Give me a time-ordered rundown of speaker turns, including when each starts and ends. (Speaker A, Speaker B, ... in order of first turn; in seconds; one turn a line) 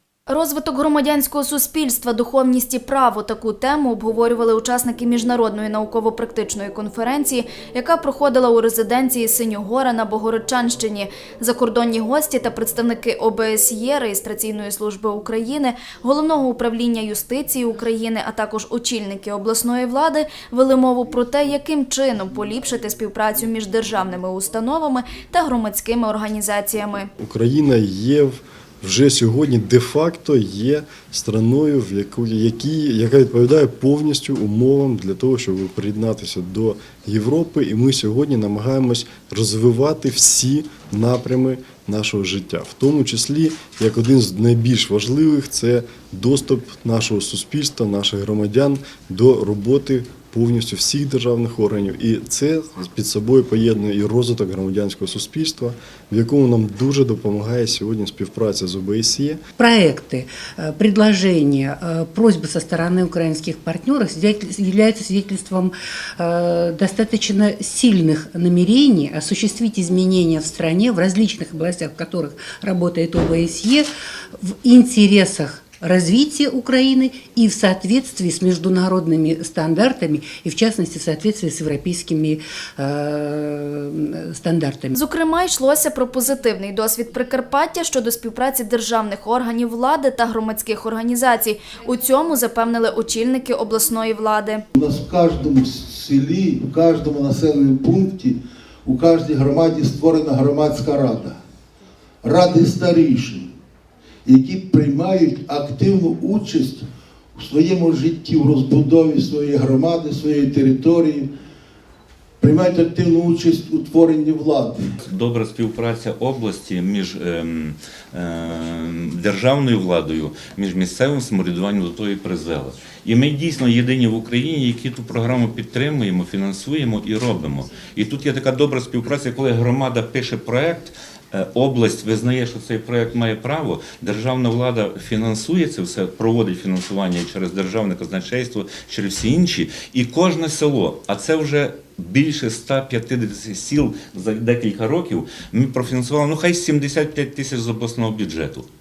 Speaker A: 0.3-27.1
Speaker B: 27.2-59.4
Speaker C: 59.6-73.9
Speaker C: 74.4-84.9
Speaker A: 85.0-94.6
Speaker D: 94.8-101.4
Speaker D: 102.2-103.5
Speaker D: 104.2-111.3
Speaker D: 112.4-114.9
Speaker E: 115.0-148.7